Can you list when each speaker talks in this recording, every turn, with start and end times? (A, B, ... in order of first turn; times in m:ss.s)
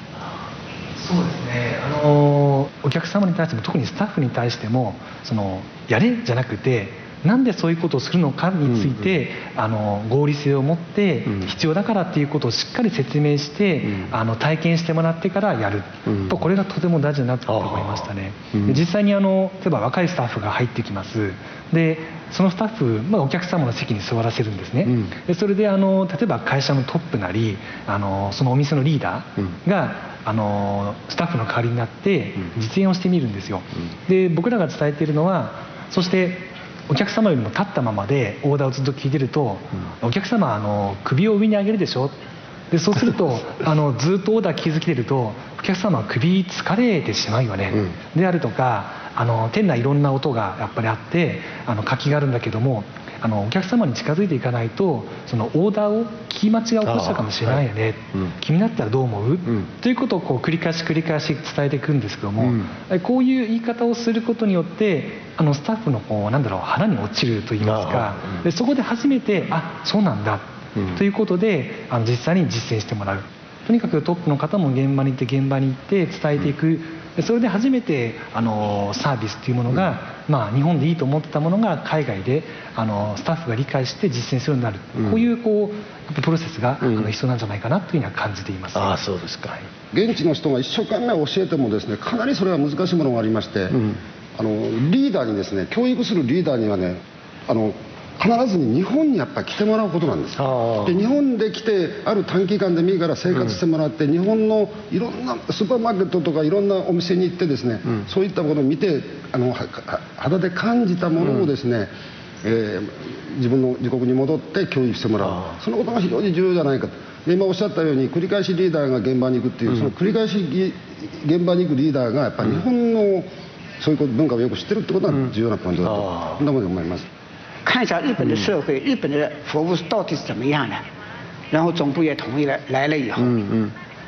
0:01.0-0:42.2 A
0:17.5-0:18.8 B
0:42.7-1:29.0 A
0:56.8-0:57.5 B
1:07.6-1:08.4 B
1:28.7-1:29.6 B
1:29.9-1:33.8 C
1:34.4-1:51.9 C
1:40.4-1:40.9 B
1:52.4-2:03.3 C
2:03.8-2:07.1 C
2:05.8-2:06.4 B
2:07.6-2:10.8 D
2:11.5-2:13.4 D
2:13.2-2:13.7 B